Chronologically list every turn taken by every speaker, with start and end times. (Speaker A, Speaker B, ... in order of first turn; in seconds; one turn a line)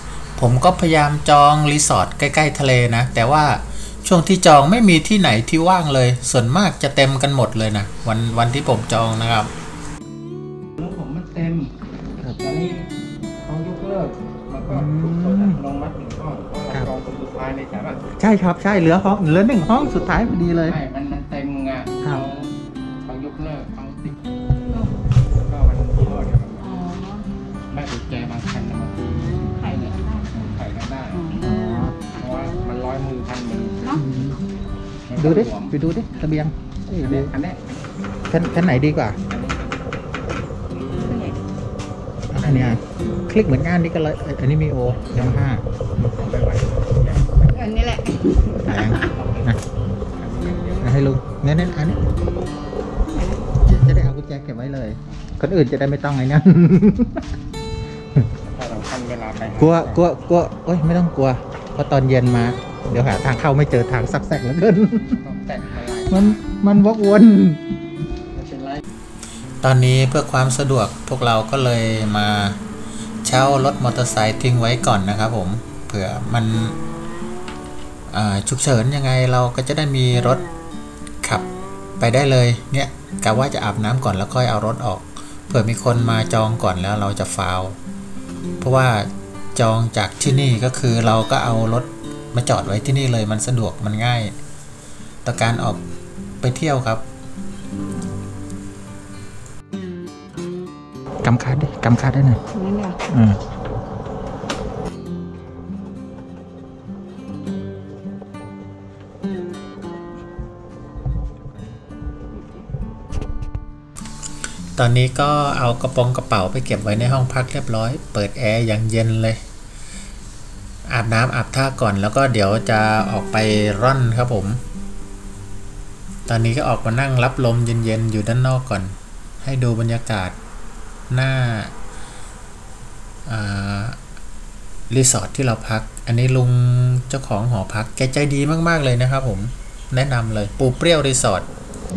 Speaker A: 0.4-9.5
Speaker B: 10.8-12.9
Speaker B: 13.4-18.0
Speaker C: 14.7-15.6
Speaker C: 18.1-20.8
Speaker B: 20.6-22.5
Speaker B: 23.0-24.1
Speaker B: 25.4-26.8
Speaker D: 26.7-27.3
Speaker B: 27.7-31.4
Speaker D: 29.6-30.1
Speaker C: 31.4-31.9
Speaker B: 32.1-33.9
Speaker C: 34.0-34.4
Speaker B: 35.1-35.7
Speaker C: 35.2-37.3
Speaker B: 37.0-37.8
Speaker C: 38.3-39.2
Speaker B: 39.2-39.7
Speaker B: 40.9-41.3
Speaker D: 41.1-41.4
Speaker C: 42.3-45.6
Speaker B: 42.4-42.8
Speaker B: 45.0-45.4
Speaker B: 46.0-47.6
Speaker D: 47.6-48.7
Speaker C: 48.6-49.6
Speaker B: 48.8-49.6
Speaker B: 50.1-51.0
Speaker C: 50.8-52.0
Speaker C: 53.6-57.2
Speaker B: 58.5-60.0
Speaker C: 59.6-65.2
Speaker B: 65.2-66.4
Speaker C: 66.1-67.6
Speaker B: 68.3-68.8
Speaker A: 69.6-72.6
Speaker A: 73.2-76.7
Speaker A: 78.1-80.5
Speaker A: 82.0-87.8
Speaker A: 88.6-94.3
Speaker A: 95.2-95.8
Speaker A: 96.4-97.0
Speaker C: 101.2-102.4
Speaker D: 102.5-103.0
Speaker C: 103.1-103.4
Speaker A: 114.8-119.4
Speaker A: 120.9-124.6
Speaker A: 126.3-130.3
Speaker A: 131.1-131.7
Speaker A: 133.3-134.0
Speaker A: 134.9-141.5